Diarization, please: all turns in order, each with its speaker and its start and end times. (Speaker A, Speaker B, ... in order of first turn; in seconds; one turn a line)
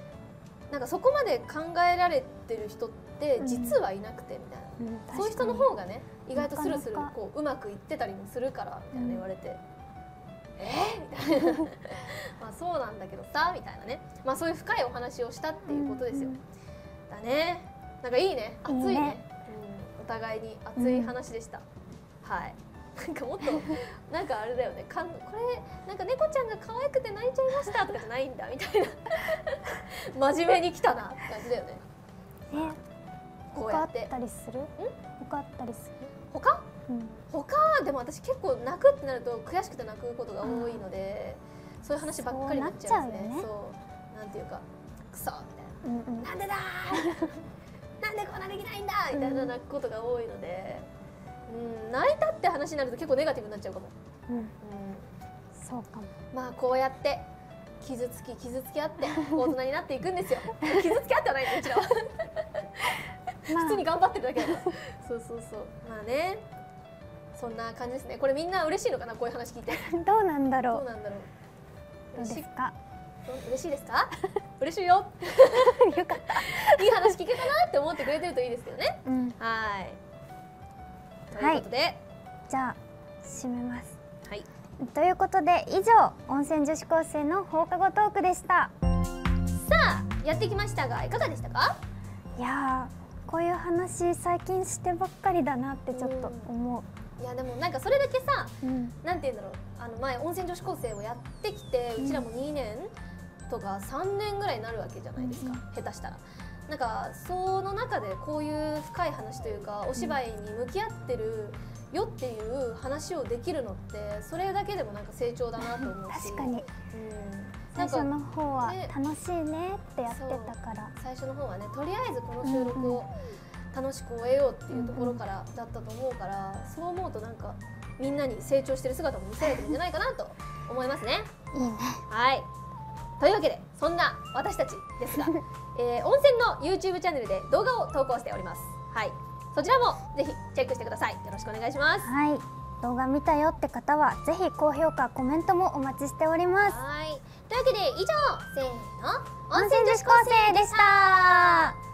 Speaker A: 0.7-9.6
Speaker B: 3.4-3.8
Speaker B: 4.8-5.7
Speaker B: 6.3-7.1
Speaker B: 8.9-9.2
Speaker A: 10.6-16.4
Speaker B: 15.7-16.4
Speaker A: 17.1-21.6
Speaker B: 18.7-19.2
Speaker B: 20.8-21.1
Speaker A: 22.2-31.8
Speaker B: 32.5-32.8
Speaker A: 33.5-34.1
Speaker B: 33.6-36.1
Speaker A: 36.3-36.7
Speaker B: 36.9-37.2
Speaker A: 37.3-47.4
Speaker B: 40.4-40.8
Speaker B: 42.0-43.5
Speaker B: 45.8-46.3
Speaker B: 46.9-47.3
Speaker A: 48.0-50.9
Speaker B: 49.1-49.6
Speaker A: 51.5-53.9
Speaker A: 54.6-55.1
Speaker B: 55.5-56.1
Speaker A: 56.3-57.3
Speaker A: 57.8-66.4
Speaker B: 59.2-59.5
Speaker B: 63.5-63.8
Speaker B: 64.4-64.7
Speaker A: 67.3-69.9
Speaker B: 69.7-70.8
Speaker A: 70.7-71.3
Speaker A: 72.1-72.5
Speaker B: 72.2-72.7
Speaker A: 73.2-80.0
Speaker B: 75.5-77.2
Speaker B: 79.0-79.3
Speaker A: 81.3-82.0
Speaker B: 81.4-81.6
Speaker B: 82.5-84.0
Speaker B: 84.8-88.7
Speaker A: 89.5-91.8
Speaker B: 92.4-96.8
Speaker A: 95.9-96.5
Speaker A: 97.2-102.9
Speaker B: 98.6-98.9
Speaker B: 102.0-102.2
Speaker A: 103.5-118.9
Speaker B: 105.2-105.6
Speaker B: 115.6-116.7
Speaker B: 117.7-120.9
Speaker A: 120.1-123.1
Speaker B: 122.4-123.0
Speaker A: 123.7-131.3
Speaker B: 124.7-125.2
Speaker B: 131.5-132.0
Speaker A: 132.1-132.5
Speaker A: 133.2-142.1
Speaker B: 142.0-146.8
Speaker A: 146.6-151.7
Speaker B: 149.5-151.7